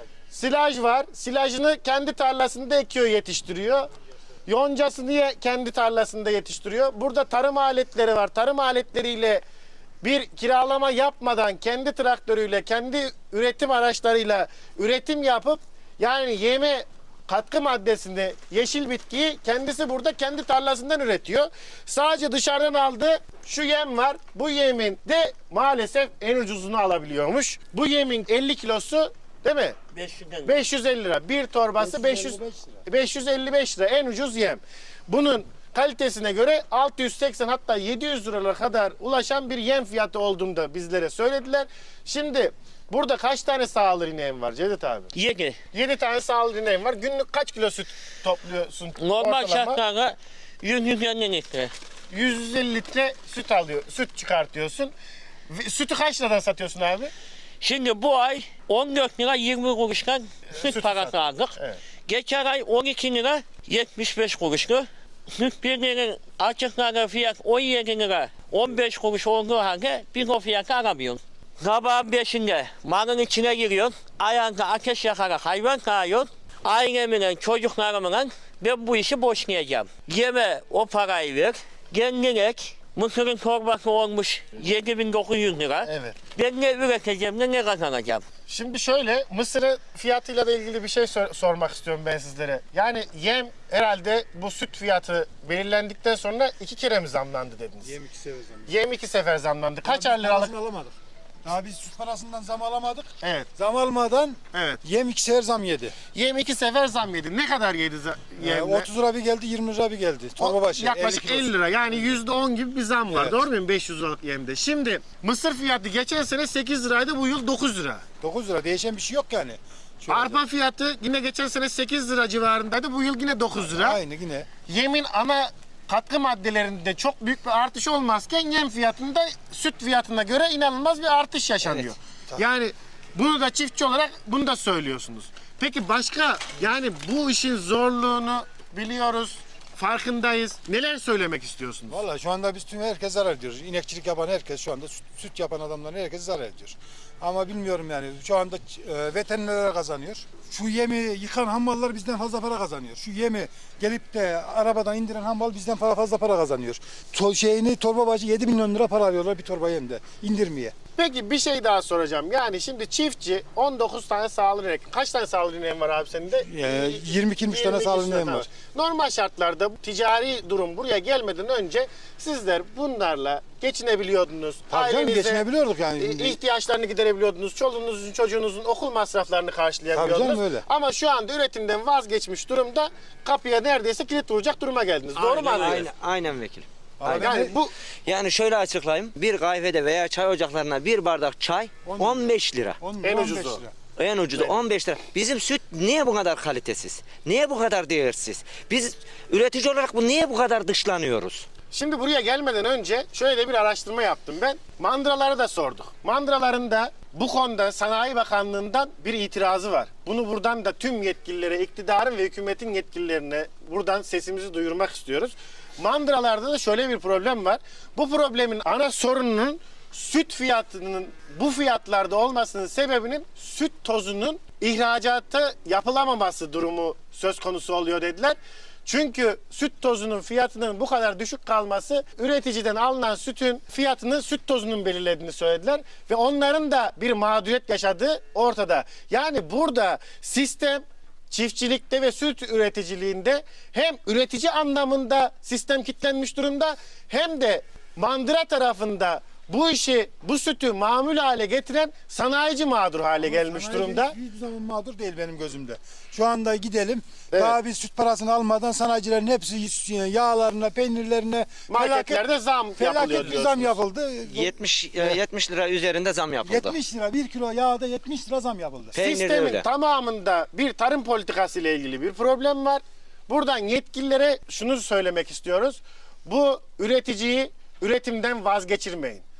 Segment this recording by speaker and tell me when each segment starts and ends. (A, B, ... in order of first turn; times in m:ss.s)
0:00.3-0:03.9 A
0:04.4-0:09.4 A
0:10.0-0:29.8 A
0:29.9-0:30.5 B
0:30.4-0:45.1 A
0:31.8-0:32.8 C
0:45.1-0:45.6 B
0:45.7-0:49.8 A
0:49.0-0:51.7 B
0:52.1-0:54.9 A
0:55.5-0:57.1 A
0:57.6-1:28.2 B
1:00.5-1:01.8 A
1:25.8-1:26.2 A
1:28.5-1:37.9 A
1:37.8-1:38.7 C
1:38.7-1:40.5 A
1:39.8-1:45.9 C
1:43.2-1:43.5 A
1:44.5-1:44.8 A
1:46.1-1:48.9 A
1:48.4-1:52.2 C
1:50.4-1:58.0 A
1:53.1-1:53.4 C
1:58.2-2:00.4 C
2:00.1-2:04.0 A
2:03.6-2:04.5 C
2:04.7-2:22.0 A
2:21.9-2:40.7 C
2:40.9-2:55.4 A
2:46.4-2:48.5 C
2:54.7-2:56.4 C
2:56.0-3:05.9 A
2:59.9-3:00.6 C
3:05.2-3:05.9 B
3:05.5-3:07.4 D
3:07.0-3:07.5 C
3:07.2-3:07.7 A
3:08.0-3:12.8 D
3:11.8-3:13.8 C
3:13.0-3:13.6 A
3:14.0-3:21.4 D
3:21.7-4:14.1 A
4:13.2-4:22.2 C
4:17.3-4:17.6 A
4:21.7-4:23.8 A
4:22.8-4:25.2 C
4:24.3-4:26.8 D
4:26.4-4:28.9 C
4:28.9-4:29.6 D
4:29.0-4:39.2 A